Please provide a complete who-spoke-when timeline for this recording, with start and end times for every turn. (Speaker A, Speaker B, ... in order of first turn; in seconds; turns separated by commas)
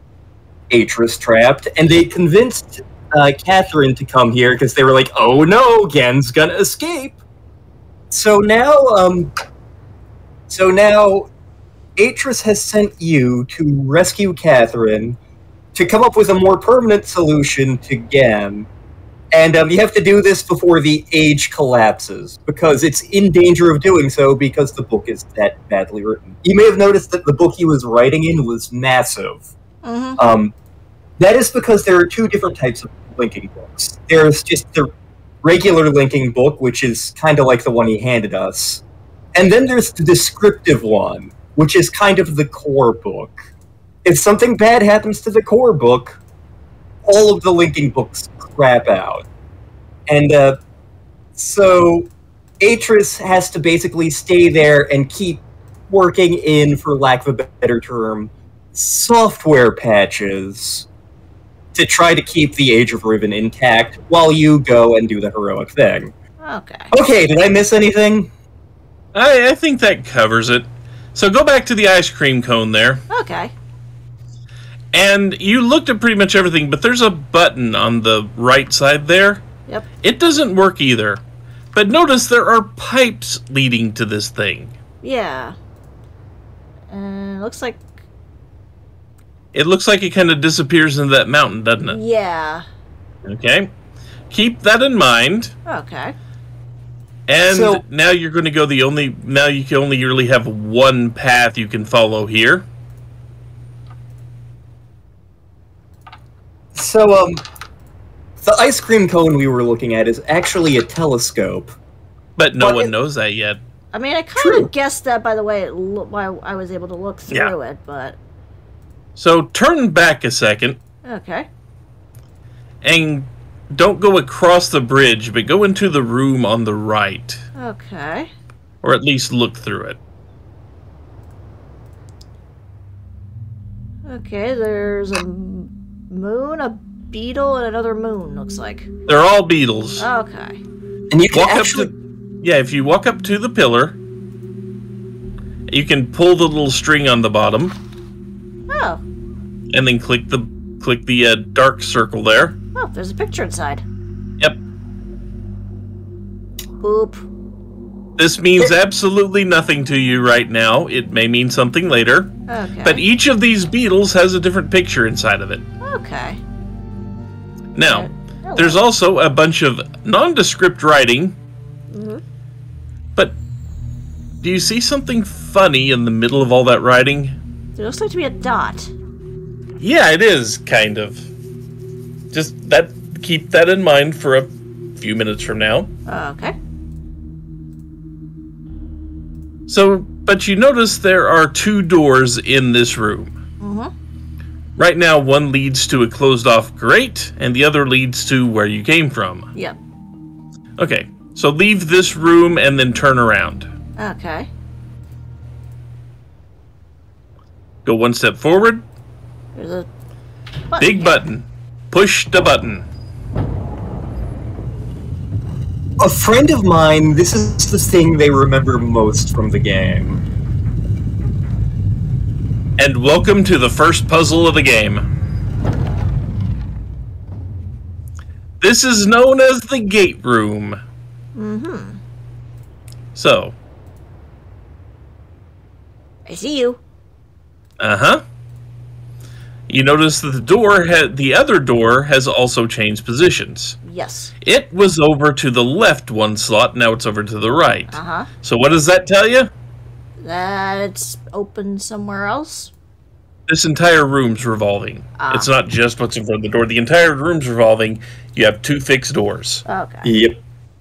Speaker A: 0.7-7.2, Speaker A: 8.1-9.3, Speaker A: 10.5-11.3, Speaker A: 12.0-15.2, Speaker A: 15.7-18.7, Speaker A: 19.3-29.5, Speaker B: 29.8-30.2, Speaker A: 30.2-30.5, Speaker A: 31.2-34.9, Speaker A: 35.4-38.8, Speaker A: 39.3-43.3, Speaker A: 44.0-46.2, Speaker A: 47.0-49.2, Speaker A: 50.1-50.6, Speaker A: 51.4-52.1, Speaker A: 52.6-60.9, Speaker A: 61.7-66.1, Speaker B: 66.4-66.9, Speaker A: 66.9-68.3, Speaker C: 69.1-73.0, Speaker B: 73.1-73.5, Speaker C: 74.9-79.4, Speaker C: 80.0-81.2, Speaker C: 81.7-84.7, Speaker B: 85.0-85.5, Speaker B: 86.9-87.8, Speaker C: 89.5-92.0, Speaker B: 91.8-92.7, Speaker C: 93.2-93.7, Speaker C: 94.3-95.5, Speaker B: 95.7-96.2, Speaker C: 97.3-102.7, Speaker A: 97.4-97.8, Speaker A: 106.7-107.4, Speaker A: 108.4-111.7, Speaker C: 112.3-113.6, Speaker A: 112.6-112.9, Speaker B: 113.9-118.2, Speaker A: 114.4-114.7, Speaker C: 119.2-120.8, Speaker B: 121.0-121.5, Speaker C: 122.8-127.4, Speaker B: 127.5-128.3, Speaker C: 128.8-130.0, Speaker B: 134.1-138.9, Speaker C: 139.1-140.1, Speaker B: 140.0-140.6, Speaker A: 141.1-141.9, Speaker C: 141.3-144.0, Speaker C: 145.7-147.8, Speaker B: 148.7-149.0, Speaker C: 149.7-152.6, Speaker B: 152.7-153.8, Speaker B: 156.8-157.2, Speaker C: 158.2-162.3, Speaker B: 162.5-163.0, Speaker C: 162.8-165.6, Speaker B: 165.8-166.4, Speaker C: 167.7-171.3, Speaker B: 167.8-168.8, Speaker B: 171.9-172.2, Speaker C: 174.4-177.4, Speaker B: 177.8-178.9, Speaker C: 179.8-181.3, Speaker C: 182.3-185.9, Speaker B: 186.1-186.6, Speaker C: 189.7-193.3, Speaker B: 193.6-193.9, Speaker C: 194.8-199.5, Speaker C: 200.8-203.7, Speaker B: 204.0-204.5, Speaker C: 207.8-208.8, Speaker B: 209.5-209.9, Speaker B: 210.7-211.2, Speaker C: 210.8-212.8, Speaker A: 216.0-220.2, Speaker C: 222.8-225.0, Speaker C: 228.6-230.8, Speaker B: 231.3-232.0, Speaker C: 233.1-233.5, Speaker B: 236.2-236.8, Speaker C: 237.8-238.2, Speaker C: 239.7-243.8, Speaker B: 243.8-244.3, Speaker C: 244.4-249.5, Speaker B: 247.9-248.3, Speaker B: 250.2-252.7, Speaker C: 253.5-259.6, Speaker B: 255.2-255.5, Speaker B: 259.6-260.1, Speaker A: 260.0-260.4